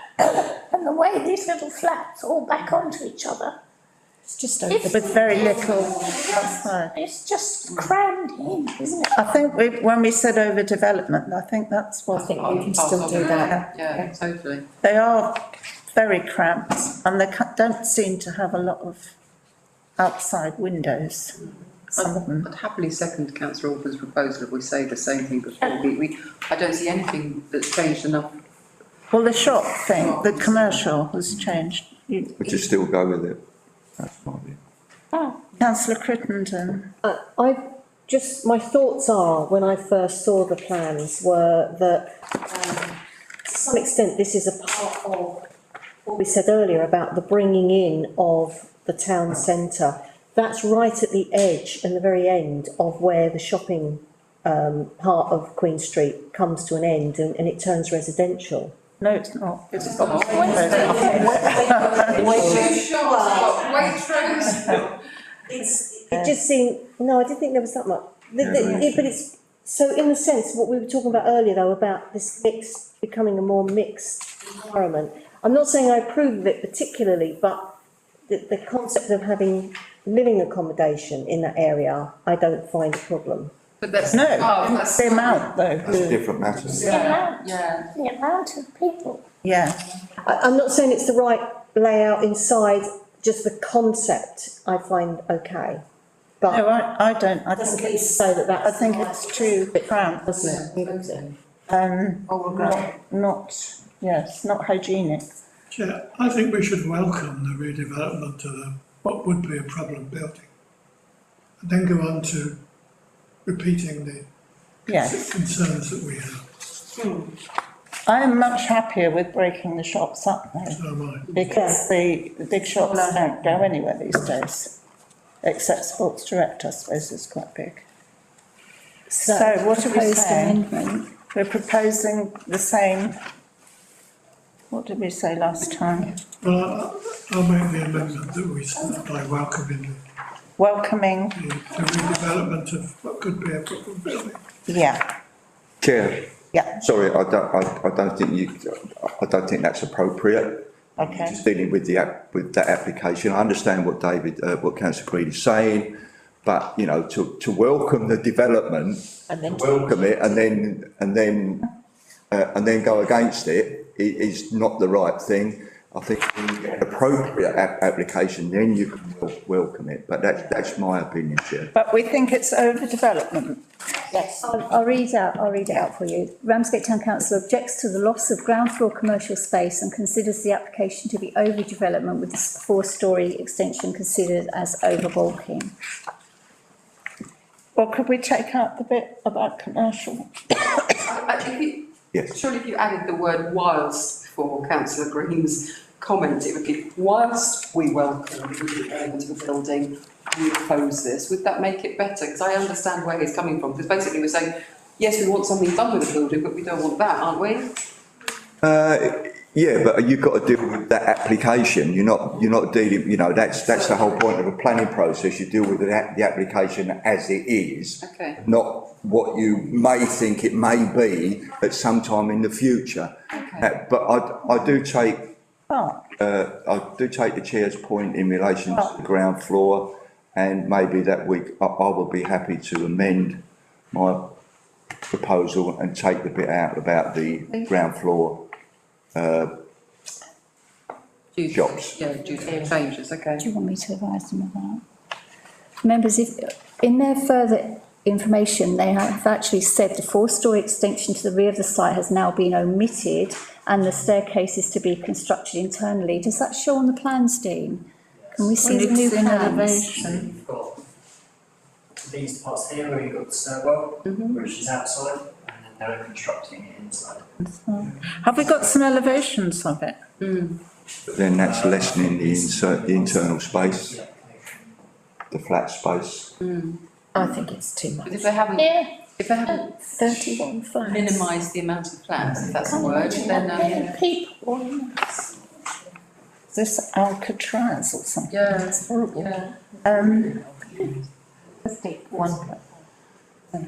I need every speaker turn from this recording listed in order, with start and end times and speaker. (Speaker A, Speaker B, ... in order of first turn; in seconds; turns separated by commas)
Speaker A: 0.2-3.6, Speaker B: 4.3-5.0, Speaker A: 4.7-9.1, Speaker C: 4.8-6.9, Speaker C: 8.8-12.6, Speaker D: 12.1-14.7, Speaker B: 12.4-13.6, Speaker C: 14.8-19.1, Speaker C: 20.0-21.4, Speaker C: 21.9-22.5, Speaker D: 21.9-28.4, Speaker C: 29.1-32.3, Speaker D: 29.9-30.7, Speaker E: 32.4-33.4, Speaker E: 34.0-34.6, Speaker A: 35.1-35.4, Speaker C: 35.5-36.9, Speaker B: 37.0-45.5, Speaker B: 46.0-58.7, Speaker C: 59.0-62.3, Speaker D: 59.8-64.9, Speaker A: 60.3-61.5, Speaker B: 60.7-63.5, Speaker B: 65.5-77.7, Speaker E: 68.4-69.1, Speaker B: 78.3-83.5, Speaker D: 83.8-85.5, Speaker C: 84.0-86.2, Speaker E: 85.8-86.9, Speaker D: 86.7-87.9, Speaker C: 86.8-87.1, Speaker A: 86.8-89.2, Speaker C: 89.4-89.8, Speaker B: 90.2-95.8, Speaker C: 96.5-98.1, Speaker B: 97.6-101.2, Speaker C: 98.6-100.3, Speaker D: 100.4-101.3, Speaker C: 101.7-105.3, Speaker F: 105.7-110.5, Speaker F: 111.6-112.6, Speaker F: 113.4-114.3, Speaker C: 114.9-115.3, Speaker F: 114.9-116.4, Speaker C: 118.0-124.8, Speaker F: 120.7-121.3, Speaker B: 121.5-121.8, Speaker C: 125.4-127.8, Speaker C: 129.1-130.6, Speaker G: 129.2-131.1, Speaker C: 131.3-133.2, Speaker C: 134.7-136.2, Speaker F: 136.4-140.0, Speaker C: 140.6-141.4, Speaker F: 141.3-144.4, Speaker C: 144.7-145.1, Speaker E: 145.8-161.7, Speaker C: 151.0-151.4, Speaker B: 159.3-160.4, Speaker H: 159.5-159.8, Speaker E: 162.3-171.7, Speaker C: 171.7-174.4, Speaker G: 174.4-185.7, Speaker C: 187.7-190.8, Speaker D: 191.0-207.8, Speaker E: 208.6-225.3, Speaker D: 218.0-218.4, Speaker D: 223.3-223.7, Speaker C: 225.7-226.0, Speaker E: 226.2-234.3, Speaker E: 235.1-238.5, Speaker E: 239.1-239.6, Speaker D: 241.3-243.4, Speaker E: 241.5-242.0, Speaker G: 243.4-244.8, Speaker G: 245.8-259.9, Speaker H: 258.2-258.5, Speaker C: 258.6-260.3, Speaker H: 259.9-260.8, Speaker H: 262.0-267.3, Speaker D: 264.0-264.6, Speaker C: 267.4-270.0, Speaker D: 270.2-270.6, Speaker E: 271.1-274.0, Speaker H: 271.3-274.8, Speaker E: 275.3-276.3, Speaker D: 276.4-276.8, Speaker B: 277.1-278.4, Speaker D: 278.0-279.9, Speaker A: 278.5-278.9, Speaker A: 279.5-280.1, Speaker B: 280.0-281.2, Speaker D: 280.8-284.0, Speaker A: 282.7-285.2, Speaker C: 282.8-283.3, Speaker C: 286.5-289.3, Speaker D: 288.3-289.5, Speaker C: 289.8-290.4, Speaker C: 292.2-292.5